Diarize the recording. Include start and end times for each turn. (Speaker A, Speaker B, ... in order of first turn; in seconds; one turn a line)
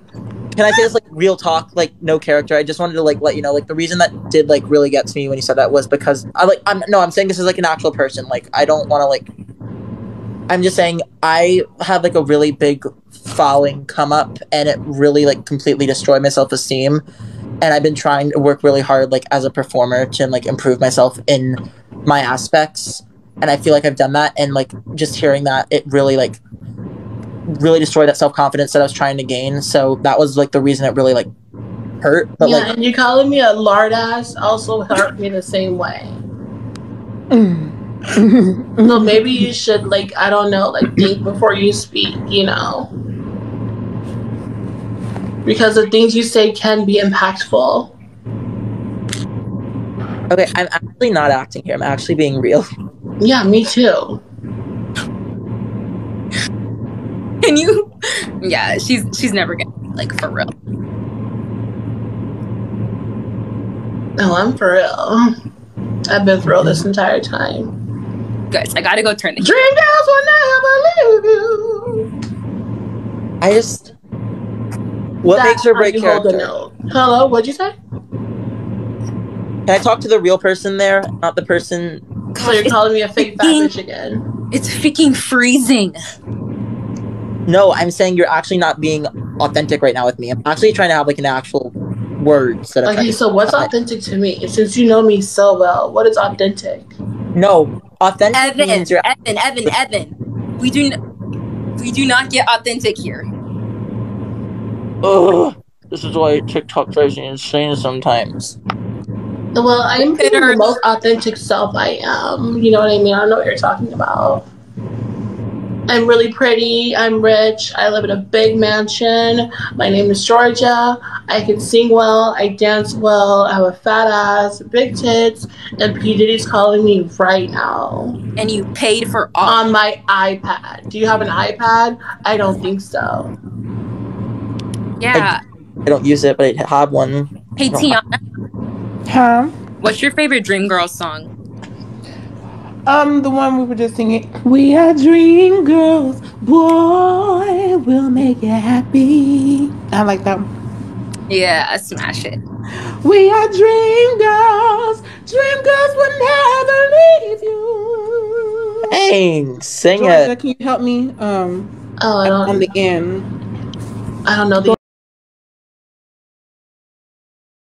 Speaker A: 0.6-9.3
Speaker A: 10.5-17.0
Speaker A: 17.6-26.4
Speaker A: 27.5-31.3
Speaker A: 32.0-32.7
Speaker B: 32.4-36.2
Speaker C: 37.3-39.5
Speaker B: 38.8-42.9
Speaker B: 45.5-47.9
Speaker A: 50.3-52.7
Speaker B: 53.2-54.2
Speaker D: 57.4-57.9
Speaker D: 58.4-60.5
Speaker B: 64.2-65.3
Speaker B: 66.1-67.7
Speaker D: 68.5-69.7
Speaker B: 69.4-72.0
Speaker A: 73.4-73.9
Speaker A: 75.2-76.5
Speaker B: 75.3-77.8
Speaker A: 79.7-82.0
Speaker D: 82.4-83.7
Speaker B: 82.4-84.2
Speaker D: 84.5-86.0
Speaker A: 87.5-93.7
Speaker B: 92.8-96.9
Speaker A: 97.3-99.0
Speaker D: 98.3-101.0
Speaker D: 101.8-103.3
Speaker A: 105.0-108.6
Speaker B: 109.5-114.5
Speaker D: 110.0-110.8
Speaker B: 115.9-128.2
Speaker D: 128.4-129.7
Speaker B: 129.4-133.3
Speaker D: 135.0-135.4
Speaker A: 135.9-138.0
Speaker D: 137.6-138.2
Speaker C: 139.1-139.5
Speaker D: 139.8-141.3
Speaker C: 142.9-150.5
Speaker D: 151.3-152.4
Speaker C: 153.0-158.8
Speaker A: 158.9-160.3
Speaker C: 159.9-161.7
Speaker B: 162.0-162.7
Speaker C: 162.2-163.3
Speaker B: 164.2-164.8